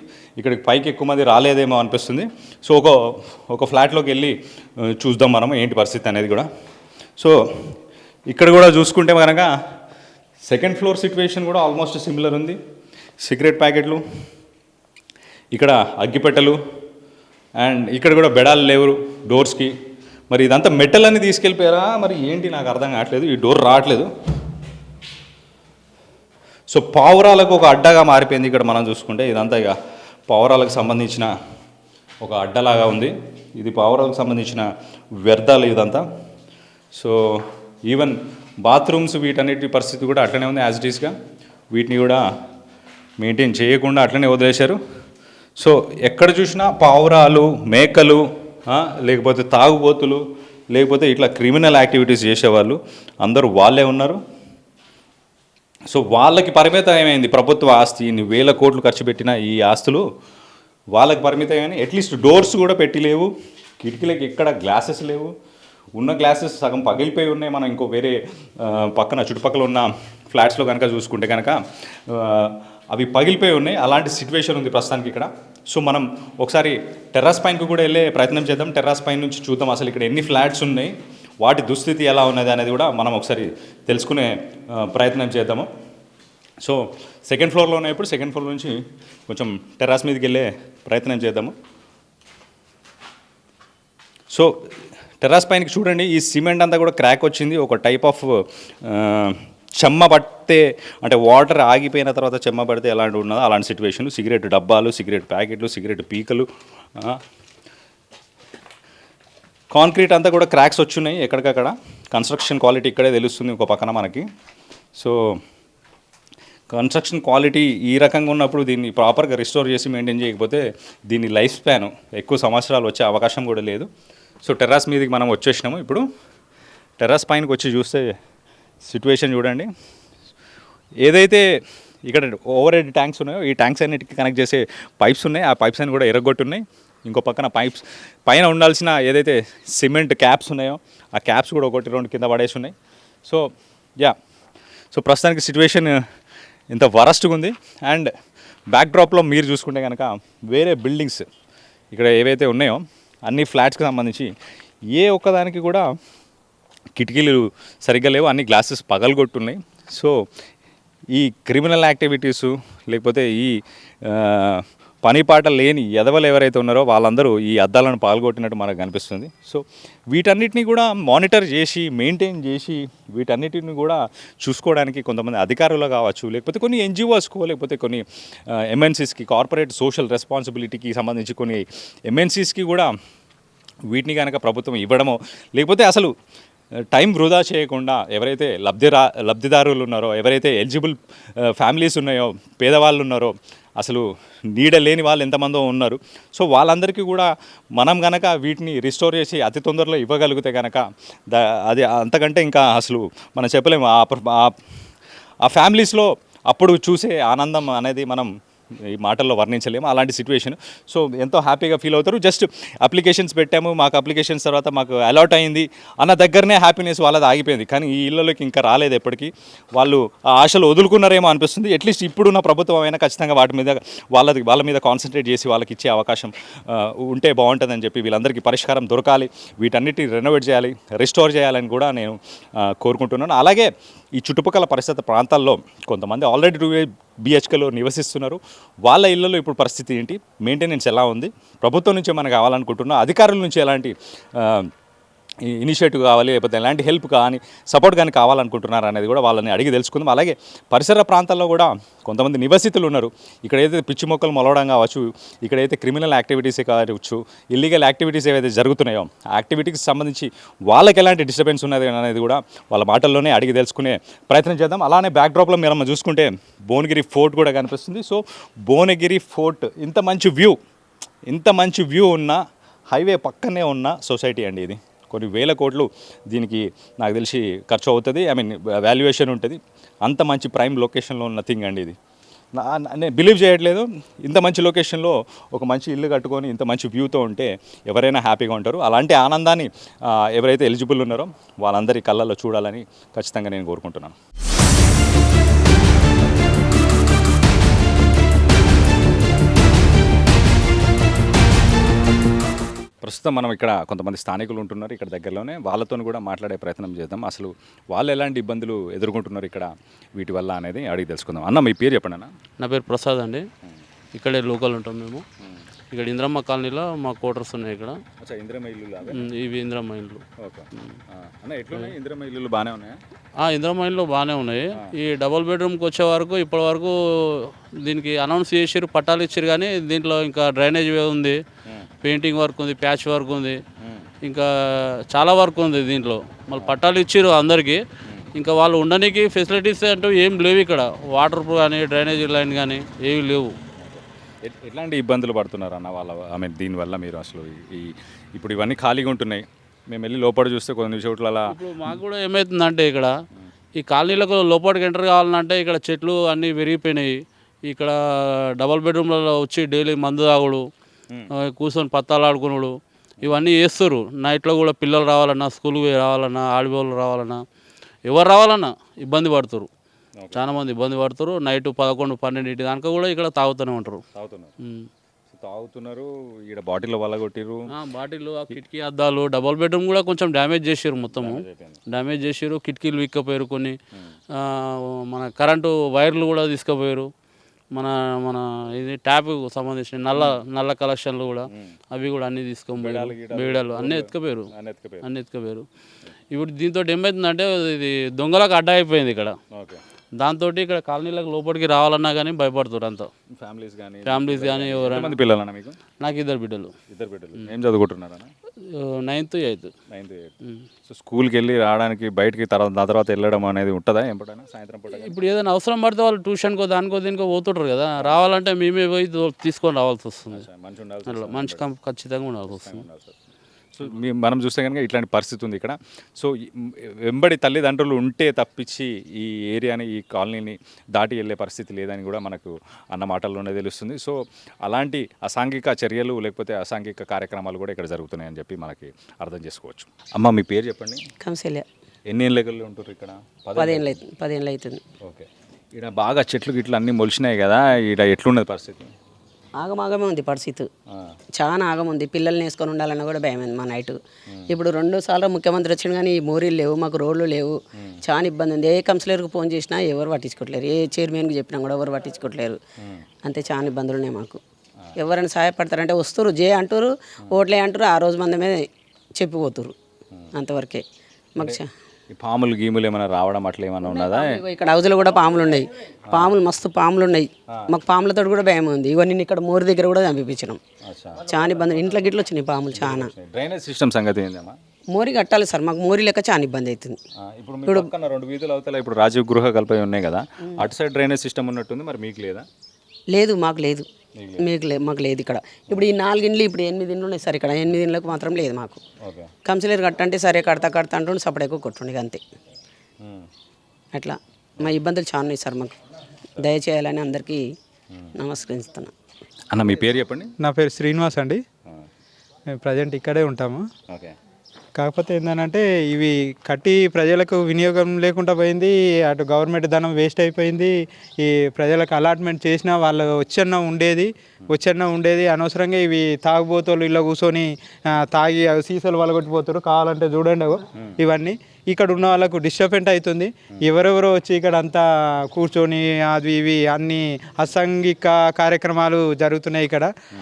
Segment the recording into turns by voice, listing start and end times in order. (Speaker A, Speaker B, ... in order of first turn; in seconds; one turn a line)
Speaker A: 0.4-6.5
Speaker A: 8.3-9.5
Speaker A: 10.4-12.6
Speaker A: 13.2-14.0
Speaker A: 15.5-16.6
Speaker A: 17.6-19.7
Speaker A: 20.3-24.1
Speaker A: 26.7-29.7
Speaker A: 30.3-31.3
Speaker A: 32.2-34.6
Speaker A: 35.2-36.0
Speaker A: 36.9-41.1
Speaker A: 41.7-42.2
Speaker A: 43.2-44.8
Speaker A: 45.6-54.2
Speaker A: 55.9-60.0
Speaker A: 60.9-65.3
Speaker A: 66.0-71.6
Speaker A: 72.1-85.7
Speaker A: 86.6-88.8
Speaker A: 89.3-91.5
Speaker A: 95.2-106.5
Speaker A: 109.7-114.2
Speaker A: 116.7-123.9
Speaker A: 124.4-126.0
Speaker A: 127.0-128.1
Speaker A: 128.8-129.7
Speaker A: 131.0-131.4
Speaker A: 132.1-142.7
Speaker A: 144.9-146.0
Speaker A: 146.7-148.1
Speaker A: 148.7-151.2
Speaker A: 151.9-154.3
Speaker A: 154.9-155.8
Speaker A: 157.0-160.1
Speaker A: 161.1-182.9
Speaker A: 183.9-186.1
Speaker A: 186.9-204.5
Speaker A: 205.4-208.3
Speaker A: 208.8-244.7
Speaker A: 245.4-270.6
Speaker A: 271.3-281.9
Speaker A: 282.5-294.1
Speaker A: 303.0-312.3
Speaker B: 312.6-313.4
Speaker B: 314.1-315.2
Speaker B: 315.9-318.0
Speaker A: 318.2-319.3
Speaker B: 319.1-320.2
Speaker A: 320.4-323.0
Speaker B: 323.4-331.4
Speaker B: 332.0-333.6
Speaker A: 333.8-334.1
Speaker B: 334.2-337.8
Speaker A: 338.0-338.3
Speaker B: 338.4-343.5
Speaker A: 343.8-351.5
Speaker B: 351.5-353.1
Speaker B: 353.8-357.1
Speaker B: 357.7-360.6
Speaker B: 361.4-367.4
Speaker B: 368.1-369.7
Speaker A: 370.2-370.5
Speaker B: 370.3-374.0
Speaker A: 374.1-374.5
Speaker B: 374.6-374.9
Speaker A: 375.3-377.7
Speaker B: 377.7-383.8
Speaker A: 381.1-381.8
Speaker B: 384.4-387.1
Speaker B: 387.7-394.5
Speaker A: 391.5-391.8
Speaker A: 392.8-395.1
Speaker B: 395.0-395.6
Speaker B: 396.3-399.4
Speaker A: 399.5-399.8
Speaker B: 400.2-403.1
Speaker A: 403.3-405.8
Speaker B: 404.1-405.2
Speaker B: 406.0-406.7
Speaker A: 406.9-408.3
Speaker B: 408.7-409.7
Speaker A: 409.9-410.3
Speaker A: 410.9-415.2
Speaker B: 414.9-420.4
Speaker A: 420.3-421.6
Speaker B: 421.1-422.8
Speaker A: 422.5-423.1
Speaker A: 423.8-441.0
Speaker C: 441.2-441.7
Speaker A: 442.1-443.9
Speaker C: 443.6-444.8
Speaker A: 445.0-448.9
Speaker C: 449.6-450.7
Speaker C: 451.3-462.6
Speaker A: 454.3-454.5
Speaker A: 457.8-458.0
Speaker C: 463.2-464.4
Speaker C: 465.0-469.8
Speaker C: 470.3-470.8
Speaker C: 471.3-471.7
Speaker A: 471.4-474.4
Speaker C: 473.8-480.6
Speaker A: 480.8-481.4
Speaker C: 481.2-483.1
Speaker A: 482.7-484.6
Speaker C: 484.9-487.0
Speaker A: 487.2-492.4
Speaker C: 493.1-498.8
Speaker A: 494.1-494.5
Speaker A: 499.0-499.3
Speaker C: 499.4-502.2
Speaker A: 503.0-503.3
Speaker C: 503.9-505.8
Speaker C: 506.4-507.4
Speaker C: 508.2-508.9
Speaker A: 509.5-510.3
Speaker D: 510.4-511.4
Speaker D: 512.6-513.6
Speaker D: 514.8-539.9